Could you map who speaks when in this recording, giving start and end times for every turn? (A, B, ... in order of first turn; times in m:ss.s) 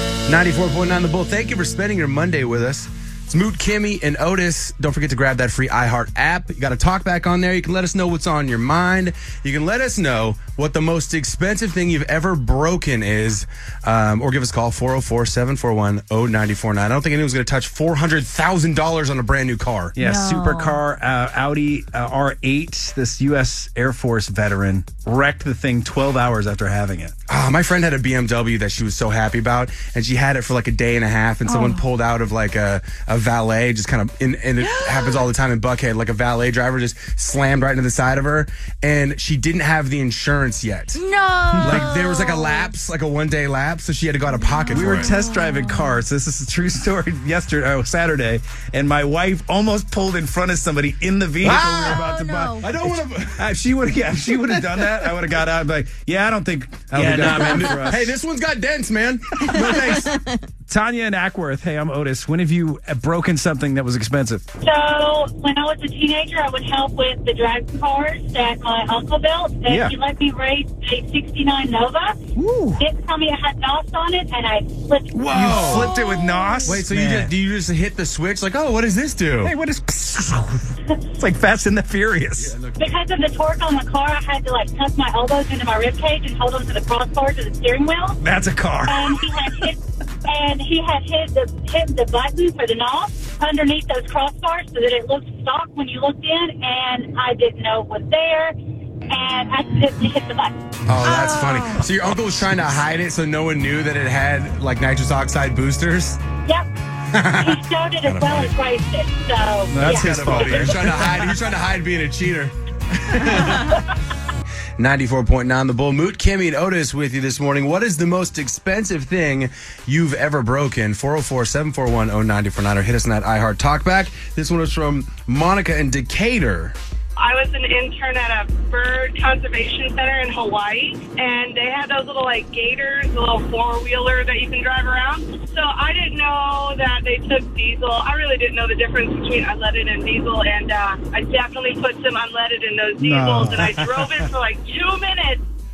0:00.2-0:20.0 A
0:20.0-0:27.1 B
0:20.0-0:20.8 C
0:27.3-0:41.0 A
0:31.5-0:31.8 C
0:34.6-0:35.2 C
0:41.0-0:42.7 C
0:41.6-0:45.1 A
0:44.5-0:45.9 C
0:44.7-0:58.1 B
0:51.4-0:52.0 A
0:51.5-0:52.6 C
0:52.6-0:53.5 A
0:54.5-0:54.9 A
0:56.9-0:59.7 A
0:59.4-1:04.4 B
0:59.5-1:00.4 C
1:04.6-1:12.2 D
1:09.6-1:09.9 B
1:12.4-1:12.8 B
1:12.8-1:15.3 D
1:15.1-1:15.9 A
1:15.3-1:17.3 B
1:15.7-1:16.7 C
1:16.7-1:19.5 A
1:19.4-1:22.6 B
1:22.4-1:23.0 A
1:22.8-1:28.2 D
1:28.2-1:29.7 B
1:28.8-1:38.5 D
1:39.1-1:40.5 D
1:40.8-1:46.2 A
1:41.0-1:41.9 C
1:47.1-1:48.5 A
1:47.3-1:50.6 D
1:49.7-1:51.3 B
1:49.8-1:52.5 A
1:53.0-1:53.8 A
1:54.8-2:06.8 A
2:07.2-2:25.4 E
2:23.0-2:24.0 B